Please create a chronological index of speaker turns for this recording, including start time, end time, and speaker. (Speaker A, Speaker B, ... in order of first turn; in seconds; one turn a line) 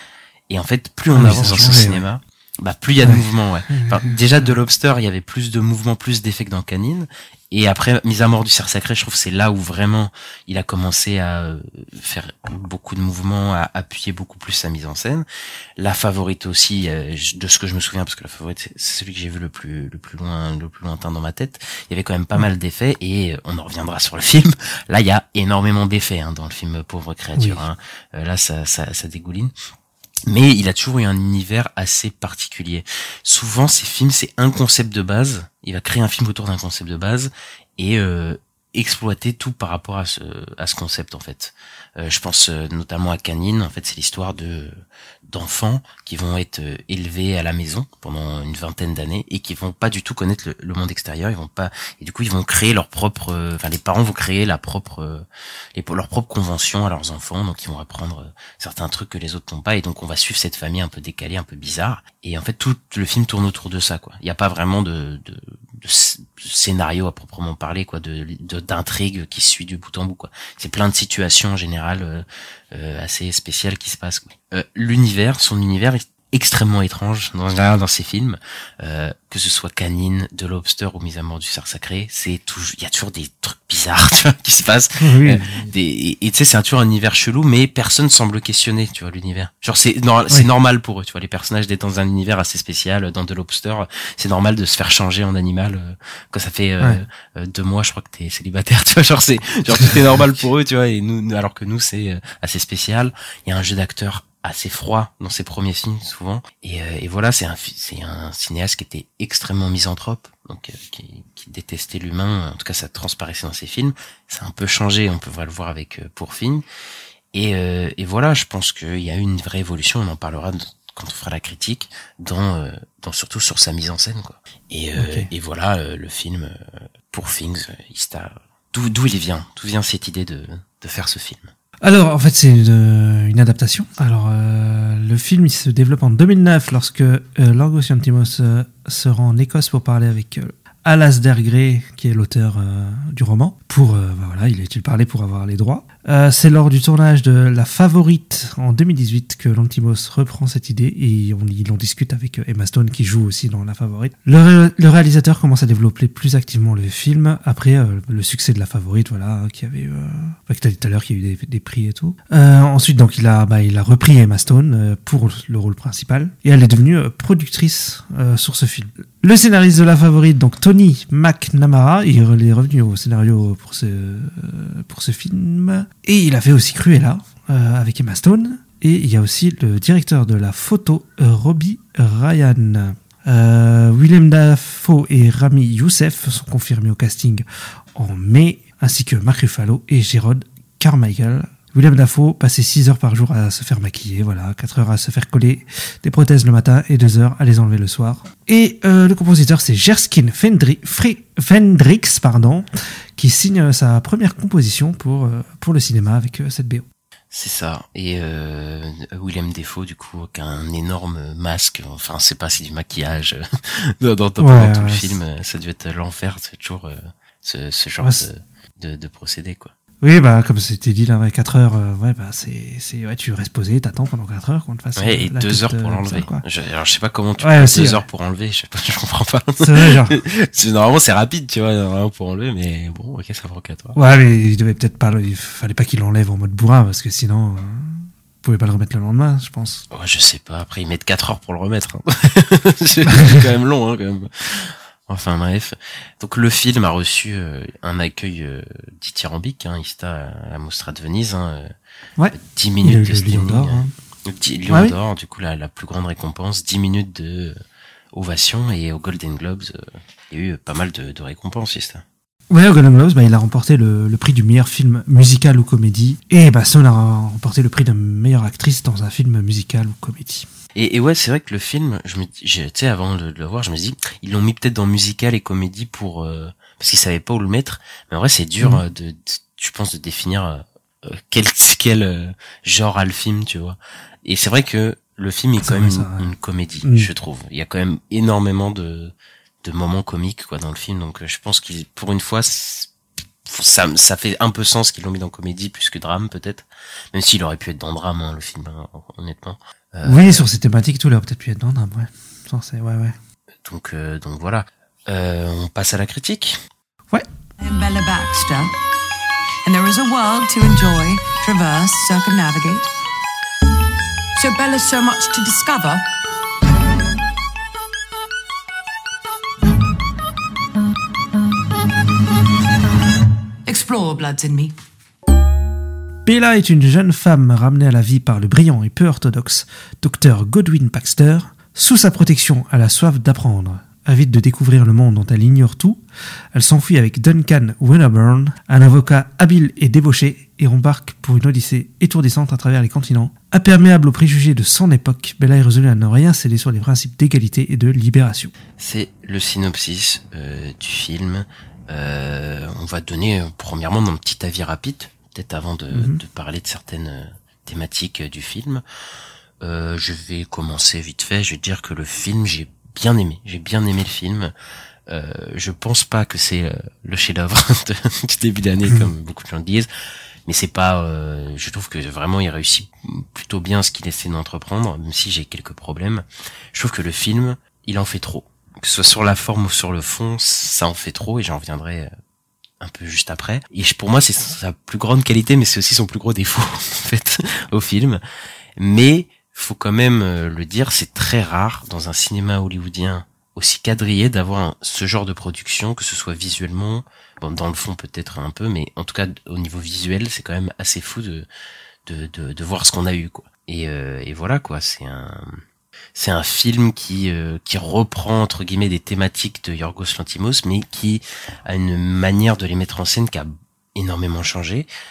Speaker A: 0.5-15.2
Speaker B: 1.1-2.0
Speaker B: 3.0-4.5
Speaker A: 15.8-29.5
Speaker B: 27.4-27.6
Speaker A: 30.3-116.6
Speaker B: 85.0-85.7
Speaker A: 117.3-131.5
Speaker B: 125.0-125.3
Speaker B: 131.8-187.4
Speaker B: 187.9-206.8
Speaker A: 207.3-219.7
Speaker B: 214.4-215.1
Speaker B: 218.0-218.2
Speaker B: 220.0-226.4
Speaker A: 224.9-233.9
Speaker B: 227.4-228.1
Speaker B: 229.6-230.2
Speaker B: 233.9-239.8
Speaker A: 239.9-251.7
Speaker B: 243.1-243.4
Speaker B: 252.2-253.9
Speaker A: 252.3-257.6
Speaker B: 254.7-254.9
Speaker A: 258.1-262.0
Speaker B: 262.5-270.5
Speaker A: 270.7-292.9
Speaker B: 285.6-287.1
Speaker A: 293.4-300.5
Speaker B: 300.0-303.1
Speaker A: 303.6-306.6
Speaker C: 307.6-308.7
Speaker C: 309.6-312.9
Speaker C: 314.3-316.1
Speaker C: 323.6-324.7
Speaker B: 326.2-336.0
Speaker B: 336.5-348.5
Speaker A: 348.8-358.8
Speaker B: 355.9-356.2
Speaker A: 359.6-364.5
Speaker A: 365.1-369.9
Speaker A: 370.4-382.1
Speaker A: 382.8-388.2
Speaker A: 388.8-401.5
Speaker A: 402.1-405.6
Speaker A: 406.1-414.9